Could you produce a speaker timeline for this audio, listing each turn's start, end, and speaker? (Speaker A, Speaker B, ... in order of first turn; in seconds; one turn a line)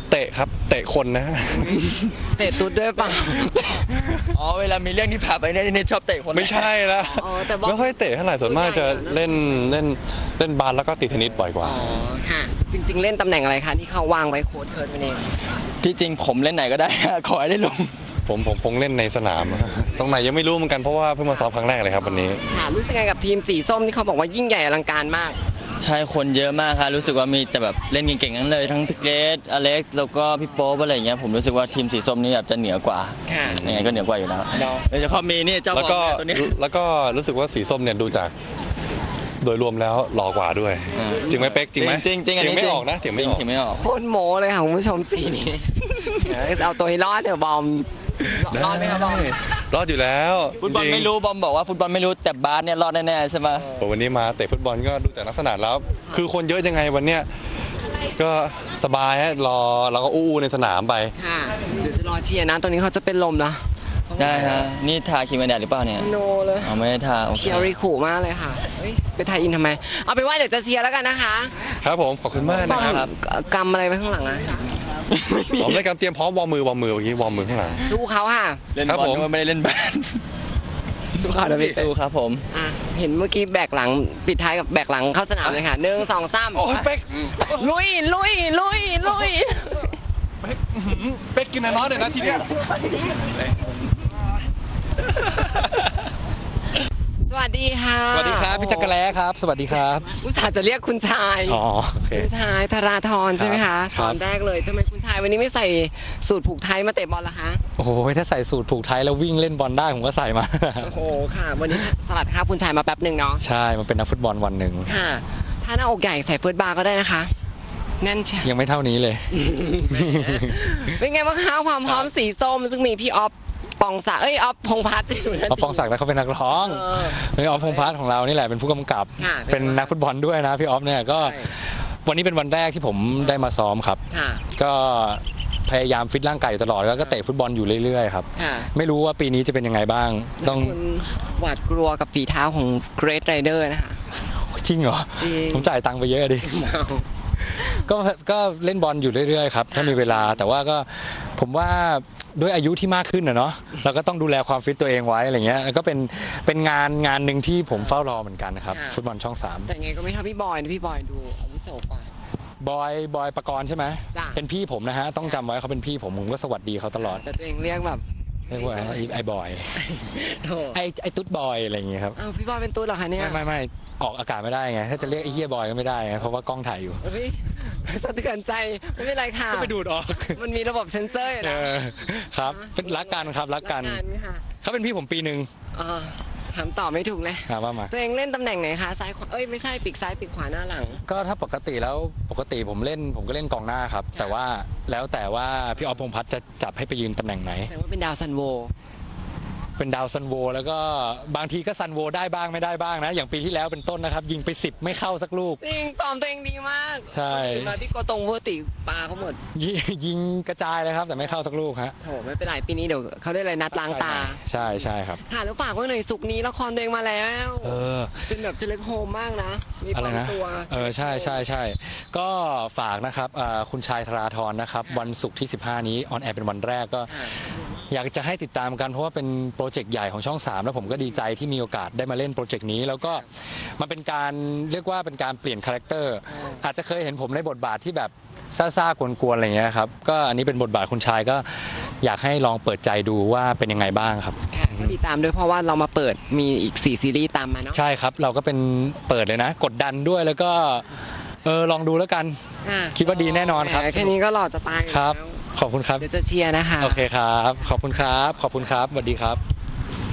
Speaker A: 0.1-1.8
Speaker B: 2.3-4.1
Speaker C: 4.3-6.7
Speaker A: 6.3-11.8
Speaker B: 7.0-9.8
Speaker B: 11.6-15.2
Speaker C: 15.8-17.9
Speaker A: 18.3-22.4
Speaker B: 22.0-25.4
Speaker C: 25.8-36.5
Speaker B: 33.3-33.7
Speaker A: 33.5-34.0
Speaker B: 34.5-34.9
Speaker A: 35.7-38.3
Speaker A: 39.4-43.5
Speaker C: 41.0-43.8
Speaker B: 43.7-49.4
Speaker A: 48.5-51.1
Speaker C: 50.6-53.6
Speaker A: 53.7-57.3
Speaker A: 58.1-61.1
Speaker B: 61.2-64.6
Speaker C: 64.2-66.1
Speaker A: 64.2-64.7
Speaker B: 66.0-66.8
Speaker C: 66.6-67.7
Speaker B: 67.3-71.5
Speaker A: 71.8-73.0
Speaker C: 72.4-73.1
Speaker B: 72.6-74.6
Speaker C: 75.1-75.8
Speaker A: 75.6-77.8
Speaker B: 77.8-78.6
Speaker C: 78.8-80.2
Speaker A: 78.8-79.3
Speaker B: 81.2-81.9
Speaker C: 81.5-82.4
Speaker B: 82.5-86.9
Speaker A: 86.6-87.5
Speaker B: 87.4-90.0
Speaker A: 90.4-92.4
Speaker B: 97.3-98.9
Speaker D: 98.1-100.1
Speaker B: 100.1-101.6
Speaker D: 101.5-102.3
Speaker B: 102.1-107.6
Speaker D: 103.3-104.2
Speaker D: 107.8-110.9
Speaker B: 110.8-113.4
Speaker D: 113.4-114.9
Speaker B: 114.9-117.3
Speaker B: 118.0-118.5
Speaker D: 118.4-119.3
Speaker B: 119.3-125.9
Speaker D: 119.9-120.9
Speaker D: 125.5-134.0
Speaker B: 126.5-127.9
Speaker B: 129.2-129.9
Speaker B: 131.2-131.5
Speaker B: 133.2-133.4
Speaker B: 134.1-134.4
Speaker D: 134.6-140.8
Speaker B: 138.4-138.7
Speaker B: 140.4-144.0
Speaker D: 144.3-146.5
Speaker B: 145.2-145.7
Speaker B: 146.4-147.1
Speaker D: 147.6-159.7
Speaker B: 149.7-150.4
Speaker B: 157.7-158.0
Speaker B: 158.7-159.0
Speaker B: 159.7-162.1
Speaker D: 162.6-167.2
Speaker B: 164.1-164.4
Speaker B: 167.0-169.1
Speaker D: 168.5-169.8
Speaker B: 169.9-170.8
Speaker D: 170.7-172.2
Speaker B: 172.2-173.4
Speaker D: 173.2-177.0
Speaker B: 175.0-175.4
Speaker B: 177.0-179.7
Speaker D: 179.5-180.4
Speaker B: 180.3-184.4
Speaker D: 181.4-184.0
Speaker D: 184.6-185.5
Speaker B: 185.7-191.0
Speaker D: 187.4-187.9
Speaker D: 191.1-197.7
Speaker B: 197.7-198.7
Speaker D: 199.8-205.6
Speaker B: 205.6-209.4
Speaker D: 207.1-207.8
Speaker D: 209.6-211.9
Speaker B: 212.0-221.5
Speaker D: 213.7-215.2
Speaker D: 217.6-218.3
Speaker D: 219.9-227.3
Speaker B: 224.8-225.1
Speaker B: 227.1-227.3
Speaker D: 227.9-244.9
Speaker B: 236.3-236.6
Speaker B: 244.5-247.8
Speaker D: 247.7-250.8
Speaker D: 251.4-252.4
Speaker B: 252.6-255.4
Speaker D: 252.9-254.2
Speaker D: 254.9-256.1
Speaker B: 256.0-257.1
Speaker D: 256.8-259.4